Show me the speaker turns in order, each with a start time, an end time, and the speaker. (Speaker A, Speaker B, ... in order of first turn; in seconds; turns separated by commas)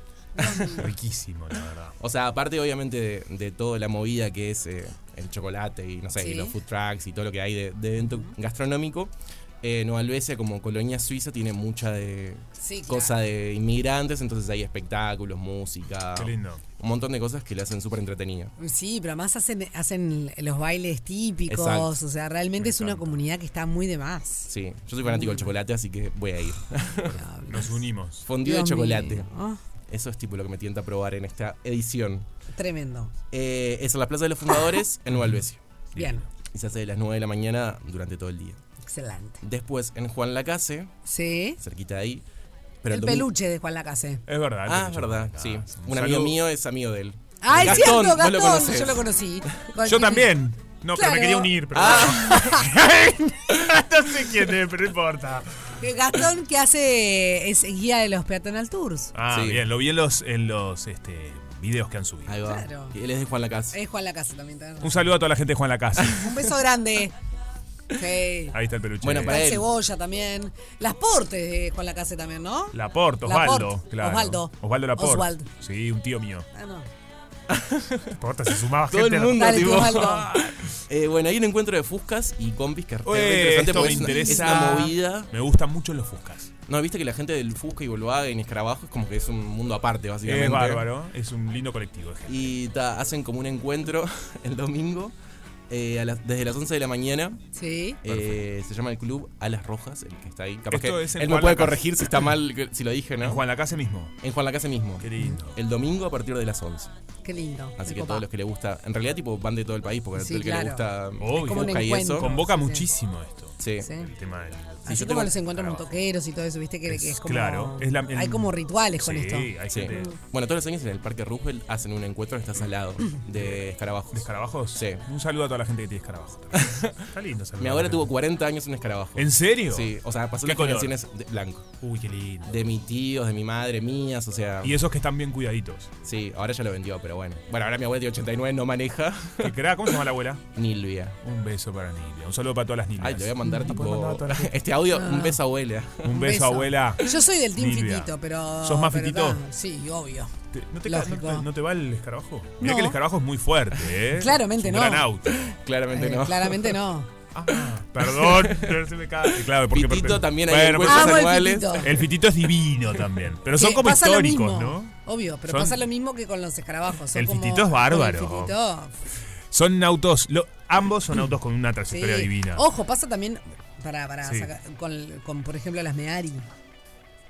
Speaker A: 0.4-0.9, Speaker B: 0.4-0.9, Speaker C: 0.8-2.0, Speaker B: 2.0-18.5, Speaker A: 6.2-6.6, Speaker A: 8.1-8.3, Speaker A: 12.6-13.2, Speaker C: 16.2-16.6, Speaker A: 18.6-24.5, Speaker B: 21.5-21.9, Speaker C: 22.6-23.2, Speaker B: 24.5-27.2, Speaker A: 25.1-25.5, Speaker A: 27.1-29.6, Speaker C: 27.5-28.3, Speaker B: 28.2-29.3, Speaker B: 29.9-32.3, Speaker A: 32.5-33.1, Speaker B: 33.3-35.6, Speaker C: 35.1-35.4, Speaker C: 35.9-36.2, Speaker A: 36.0-36.2, Speaker B: 36.5-38.6, Speaker A: 38.9-39.4, Speaker B: 39.4-40.9, Speaker A: 41.1-41.6, Speaker B: 41.6-42.2, Speaker B: 42.8-43.3, Speaker A: 42.9-44.2, Speaker C: 44.3-46.4, Speaker B: 44.6-49.1, Speaker A: 47.4-50.4, Speaker C: 47.5-48.0, Speaker C: 49.9-55.5, Speaker A: 50.9-52.7, Speaker B: 51.7-52.4, Speaker A: 55.8-59.1, Speaker C: 59.1-62.4, Speaker B: 59.3-59.7, Speaker B: 62.3-63.8, Speaker A: 62.4-63.0, Speaker A: 63.7-65.1, Speaker C: 64.8-66.3, Speaker A: 66.1-67.1, Speaker A: 67.9-68.6, Speaker C: 68.5-69.5, Speaker B: 69.0-69.7, Speaker A: 69.2-75.5, Speaker C: 72.7-76.5, Speaker A: 76.5-76.9, Speaker B: 77.5-78.2, Speaker C: 78.2-80.2, Speaker B: 78.8-85.3, Speaker A: 79.4-80.3, Speaker C: 83.0-86.5, Speaker B: 86.7-90.9, Speaker C: 90.3-92.5, Speaker B: 92.3-95.2, Speaker B: 95.7-97.4, Speaker A: 97.5-98.0, Speaker B: 98.0-103.4, Speaker C: 98.1-98.5, Speaker C: 100.7-102.3, Speaker C: 103.2-104.1, Speaker B: 104.2-106.9, Speaker C: 105.0-105.6, Speaker A: 107.2-108.3, Speaker B: 107.8-112.3, Speaker A: 110.2-112.9, Speaker C: 111.2-115.1, Speaker B: 113.6-113.9, Speaker A: 113.8-114.1, Speaker A: 114.8-120.1, Speaker B: 114.9-115.8, Speaker C: 116.9-120.1, Speaker B: 119.7-125.0, Speaker C: 123.3-128.1, Speaker B: 126.5-127.0, Speaker B: 127.6-131.7, Speaker C: 129.2-130.9, Speaker C: 131.8-132.5, Speaker B: 132.4-134.8, Speaker C: 134.6-135.9, Speaker B: 136.0-140.0, Speaker C: 139.4-140.4, Speaker B: 140.6-141.2, Speaker C: 141.2-144.6, Speaker B: 143.0-146.2, Speaker A: 143.4-143.8, Speaker A: 144.9-145.4, Speaker C: 146.0-148.1, Speaker A: 146.1-150.3, Speaker C: 148.6-149.4, Speaker C: 150.5-155.6, Speaker A: 150.8-151.5, Speaker A: 152.6-153.0, Speaker A: 154.1-155.1, Speaker B: 155.5-156.8, Speaker A: 155.9-157.1, Speaker C: 157.3-161.3, Speaker B: 158.1-158.8, Speaker B: 159.4-161.9, Speaker A: 160.8-162.0, Speaker C: 161.8-164.9, Speaker A: 163.6-169.0, Speaker C: 165.5-165.8, Speaker C: 167.1-168.6, Speaker C: 169.5-172.6, Speaker A: 171.9-176.5, Speaker C: 174.2-174.5